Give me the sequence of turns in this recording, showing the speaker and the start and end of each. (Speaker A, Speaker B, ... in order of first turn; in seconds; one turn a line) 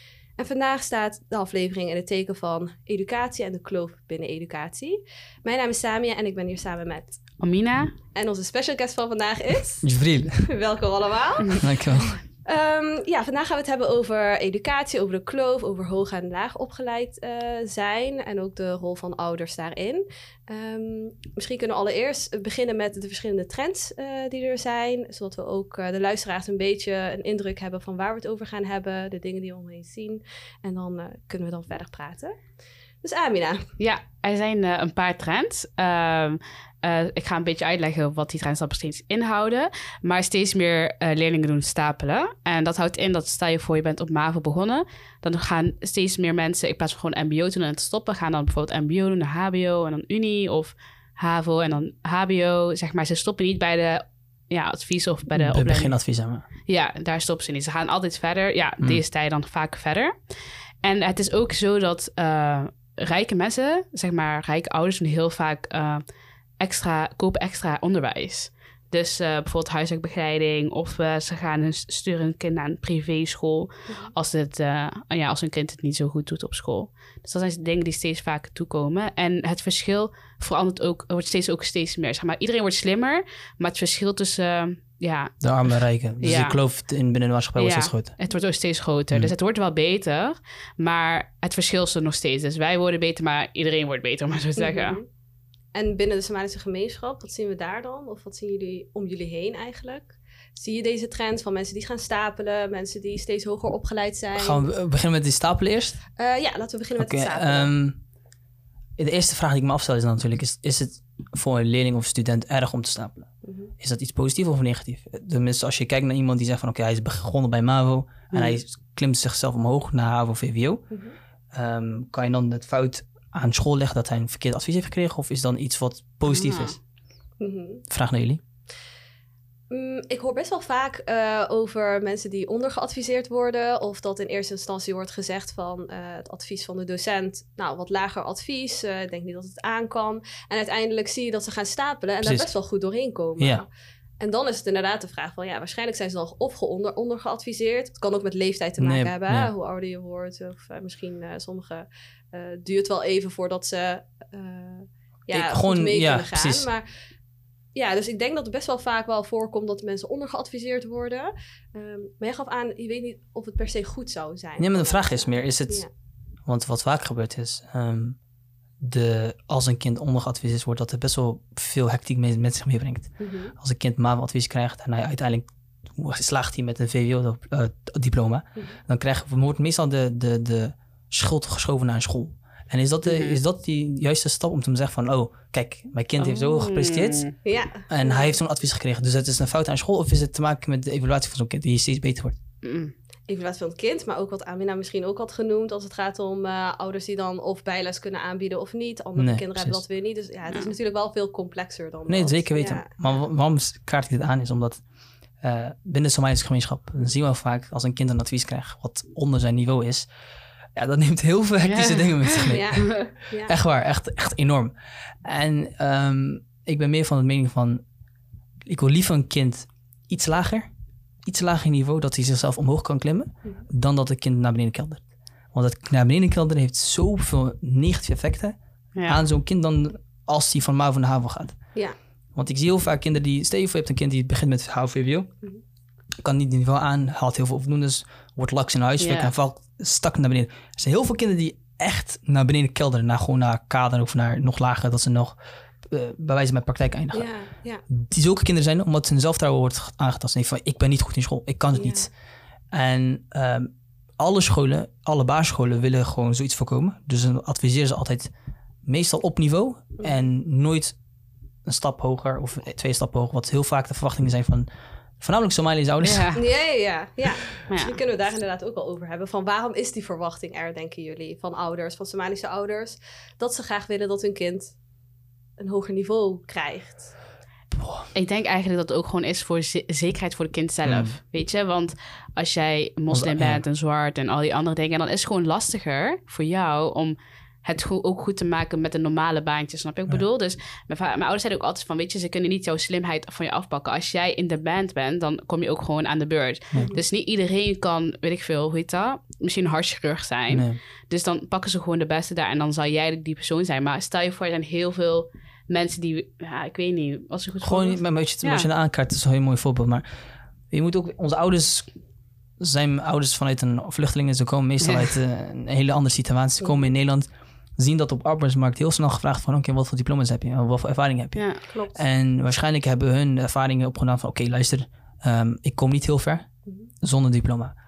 Speaker A: 0.4-7.2
Speaker B: 7.4-7.9
Speaker A: 8.2-9.9
Speaker C: 9.8-10.5
Speaker A: 10.4-11.6
Speaker C: 11.6-12.2
Speaker A: 12.4-32.4
Speaker A: 33.0-33.7
Speaker B: 33.8-56.0
Speaker C: 55.3-56.5
Speaker B: 56.7-66.0
Speaker B: 66.6-85.5
Speaker C: 85.4-88.1
Speaker B: 86.2-86.6
Speaker B: 87.6-95.0
Speaker A: 94.6-95.1
Speaker A: 95.8-104.6
Speaker C: 104.4-106.0
Speaker A: 106.2-107.7
Speaker C: 107.0-108.0
Speaker C: 109.0-113.3
Speaker A: 113.4-113.7
Speaker C: 113.8-120.8
Speaker B: 118.3-118.6
Speaker A: 120.9-121.2
Speaker C: 121.5-126.8
Speaker B: 126.3-126.7
Speaker A: 127.4-127.8
Speaker C: 127.9-128.4
Speaker A: 129.7-143.7
Speaker C: 142.2-142.5
Speaker A: 144.2-156.9
Speaker C: 148.8-149.5
Speaker C: 155.3-156.7
Speaker A: 157.8-165.9
Speaker C: 164.6-165.8
Speaker C: 166.5-168.2
Speaker C: 168.8-187.3
Speaker A: 173.2-173.5
Speaker B: 183.1-183.4
Speaker B: 186.2-187.3
Speaker A: 187.4-188.4
Speaker C: 187.9-192.4
Speaker B: 192.6-192.9
Speaker A: 193.3-202.9
Speaker C: 199.2-199.8
Speaker C: 202.1-204.8
Speaker C: 205.4-210.1
Speaker C: 210.8-214.7
Speaker B: 211.7-213.1
Speaker A: 212.5-213.5
Speaker C: 215.2-217.8
Speaker C: 218.7-220.7
Speaker C: 221.2-231.6
Speaker C: 232.3-235.3
Speaker C: 236.2-247.3
Speaker B: 239.0-239.3
Speaker A: 247.1-247.8
Speaker C: 247.9-252.1
Speaker A: 251.7-252.1
Speaker C: 252.7-258.3
Speaker C: 258.9-261.0
Speaker C: 261.6-264.7
Speaker C: 265.2-266.4
Speaker B: 266.0-266.4
Speaker A: 266.4-274.8
Speaker B: 267.7-268.0
Speaker A: 275.6-277.1
Speaker C: 277.7-278.1
Speaker B: 278.1-308.6
Speaker C: 280.8-281.2
Speaker C: 283.1-283.6
Speaker A: 296.8-297.0
Speaker C: 300.5-300.8
Speaker C: 307.6-310.1
Speaker C: 310.7-311.9
Speaker C: 312.6-326.5
Speaker B: 314.8-315.1
Speaker B: 321.4-321.6
Speaker A: 321.7-322.0
Speaker C: 327.0-327.7